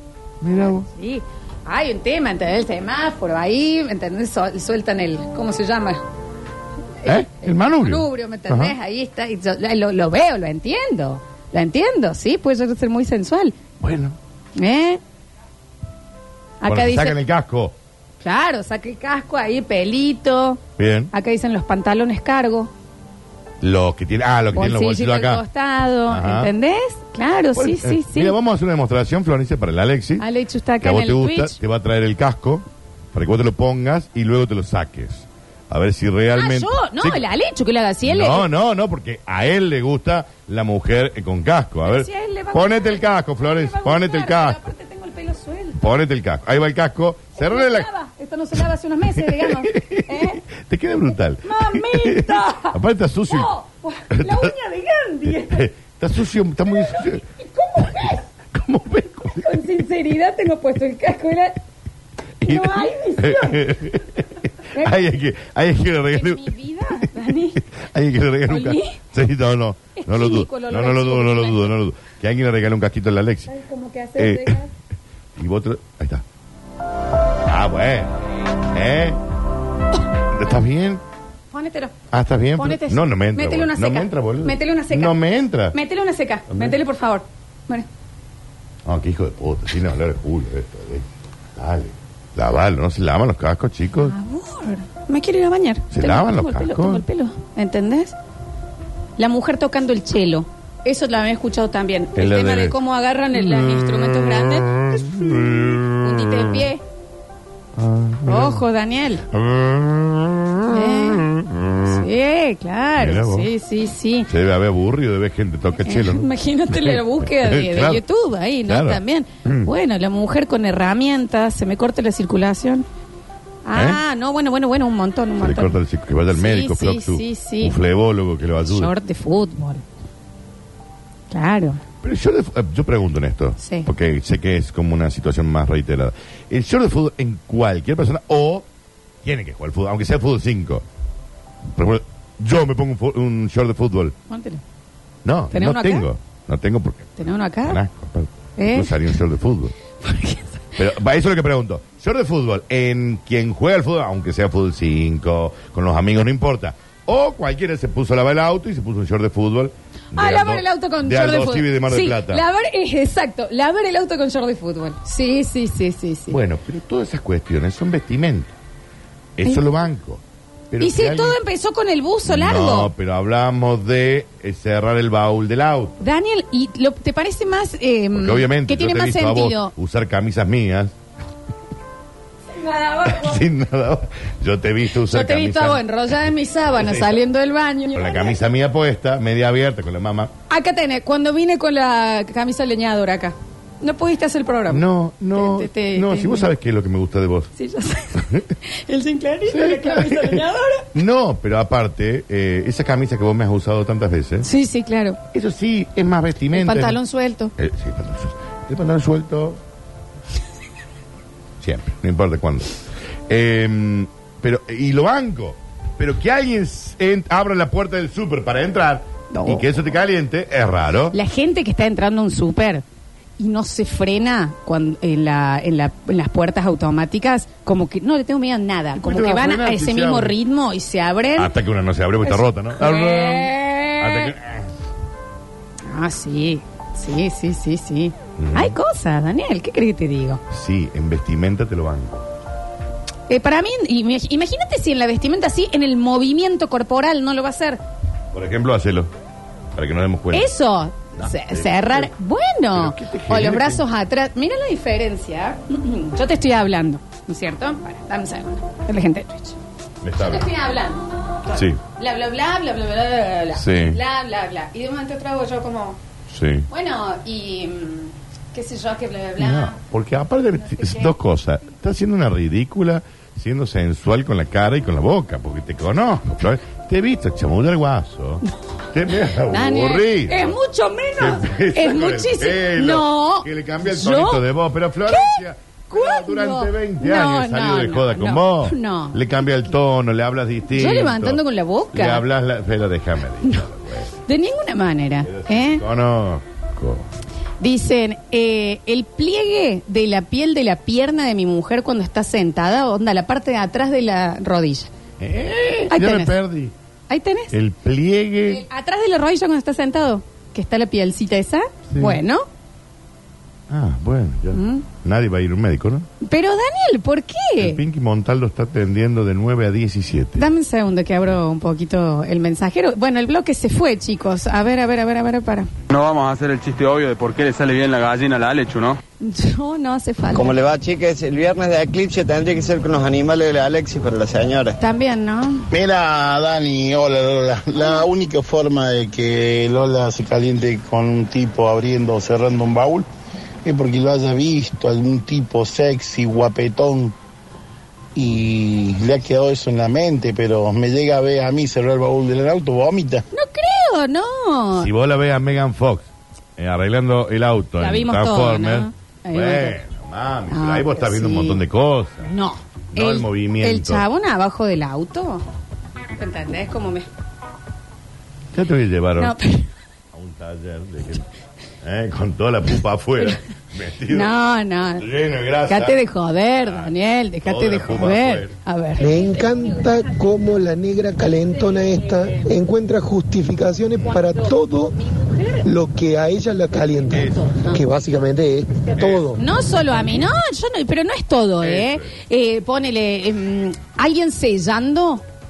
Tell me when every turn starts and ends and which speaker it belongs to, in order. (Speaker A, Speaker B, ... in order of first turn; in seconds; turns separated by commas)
Speaker A: 0.4-0.9, Speaker B: 0.5-6.0, Speaker B: 7.0-13.6, Speaker A: 7.0-8.8, Speaker A: 13.8-14.2, Speaker B: 14.6-15.0, Speaker B: 16.6-17.2, Speaker A: 16.6-17.8, Speaker B: 18.2-20.6, Speaker A: 20.8-21.1, Speaker B: 21.1-22.7, Speaker A: 23.6-25.4, Speaker B: 24.5-28.4, Speaker A: 26.1-26.5, Speaker A: 27.5-30.3, Speaker B: 30.2-31.6, Speaker A: 30.8-37.2, Speaker B: 36.3-38.5, Speaker A: 38.0-44.6, Speaker B: 41.9-45.8, Speaker A: 45.8-47.9, Speaker B: 47.4-50.4, Speaker A: 49.2-53.5, Speaker B: 51.4-52.8, Speaker B: 53.3-55.7, Speaker A: 54.1-54.5, Speaker A: 55.2-57.2, Speaker B: 56.7-58.3, Speaker A: 57.8-59.8, Speaker B: 59.3-61.6, Speaker A: 62.4-67.1, Speaker B: 62.4-63.6, Speaker B: 64.7-65.1, Speaker B: 66.1-67.6, Speaker A: 67.7-73.5, Speaker B: 68.5-69.0, Speaker B: 70.0-71.8, Speaker B: 73.5-74.7, Speaker A: 74.2-74.6, Speaker A: 75.4-76.2, Speaker A: 77.5-78.1, Speaker A: 78.7-79.2, Speaker A: 80.3-81.0, Speaker B: 81.5-82.0, Speaker A: 82.1-85.8, Speaker B: 82.6-85.2, Speaker B: 85.7-87.9, Speaker A: 86.5-86.8, Speaker A: 88.8-94.2, Speaker B: 94.0-98.1, Speaker A: 95.9-97.1, Speaker B: 99.2-106.8, Speaker A: 102.2-102.8, Speaker A: 103.3-106.6, Speaker A: 107.8-108.7, Speaker B: 108.3-109.2, Speaker A: 109.3-111.9, Speaker B: 110.7-111.3, Speaker B: 111.8-114.3, Speaker A: 113.0-113.5, Speaker A: 114.3-118.0, Speaker B: 115.8-122.8, Speaker A: 118.7-119.7, Speaker B: 123.7-125.8, Speaker A: 123.7-124.0, Speaker A: 125.4-128.9, Speaker B: 126.3-127.8, Speaker B: 128.6-129.8, Speaker B: 131.3-131.8, Speaker A: 132.0-138.7, Speaker B: 133.6-133.9, Speaker A: 139.2-140.8, Speaker A: 141.8-144.2, Speaker B: 144.3-144.6, Speaker A: 145.2-149.7, Speaker B: 145.5-146.1, Speaker B: 147.2-147.8, Speaker B: 148.6-148.9, Speaker B: 150.0-150.6, Speaker A: 150.8-162.4, Speaker B: 160.1-166.4, Speaker A: 166.3-168.6, Speaker A: 169.4-171.4, Speaker B: 170.8-172.9, Speaker A: 172.3-176.0, Speaker B: 176.0-179.7, Speaker A: 178.1-180.9, Speaker B: 182.5-183.4, Speaker A: 183.1-185.9, Speaker B: 185.1-188.4, Speaker A: 186.7-187.2, Speaker A: 187.9-190.3, Speaker B: 190.5-196.5, Speaker A: 194.7-197.5, Speaker B: 197.6-200.9, Speaker A: 198.2-198.5, Speaker A: 199.5-204.5, Speaker B: 204.4-205.2, Speaker A: 205.3-207.0, Speaker B: 206.5-207.5, Speaker A: 207.6-209.6, Speaker A: 211.6-221.2, Speaker B: 219.3-219.7, Speaker B: 221.1-222.8, Speaker B: 223.4-231.5, Speaker A: 229.0-230.3, Speaker A: 231.4-234.7, Speaker B: 232.2-234.3, Speaker B: 235.9-240.4, Speaker A: 238.4-238.8, Speaker A: 240.5-242.2, Speaker B: 243.3-247.8, Speaker A: 248.3-249.1, Speaker A: 249.8-250.5, Speaker B: 250.3-259.6, Speaker A: 251.2-252.1, Speaker A: 252.7-253.8, Speaker A: 260.0-260.5, Speaker B: 260.2-266.0, Speaker A: 261.5-261.8, Speaker A: 263.5-264.0, Speaker A: 266.3-266.7, Speaker B: 266.7-269.8, Speaker A: 269.4-280.6, Speaker B: 270.6-271.1, Speaker B: 279.5-284.4, Speaker A: 281.2-294.1, Speaker B: 285.1-289.2, Speaker B: 290.7-292.2, Speaker B: 294.3-295.8, Speaker A: 295.2-297.1, Speaker B: 297.6-304.9, Speaker A: 305.2-306.7, Speaker B: 305.9-306.4, Speaker B: 307.1-307.6, Speaker A: 307.5-308.6, Speaker B: 308.5-312.5, Speaker A: 311.9-312.2, Speaker A: 313.7-316.1, Speaker B: 314.5-314.9, Speaker B: 316.2-317.8, Speaker A: 317.6-320.5, Speaker B: 320.4-325.7, Speaker C: 325.9-329.0, Speaker B: 329.2-330.6, Speaker D: 330.3-334.8, Speaker B: 334.8-335.7, Speaker E: 335.7-343.1, Speaker E: 343.6-347.1, Speaker E: 348.2-353.2, Speaker B: 353.3-354.9, Speaker A: 354.8-362.3, Speaker B: 357.8-359.8, Speaker B: 360.5-361.6, Speaker B: 362.2-365.4, Speaker A: 362.9-364.1, Speaker B: 366.2-367.1, Speaker A: 368.5-369.4, Speaker B: 369.2-369.7, Speaker A: 370.1-371.3, Speaker A: 371.8-374.3, Speaker B: 374.1-375.1, Speaker A: 375.0-376.0, Speaker B: 375.7-379.1, Speaker A: 376.6-378.5, Speaker F: 379.0-385.0, Speaker F: 385.6-389.4, Speaker A: 387.1-387.6, Speaker A: 388.9-389.3, Speaker B: 389.4-395.2, Speaker A: 391.6-392.1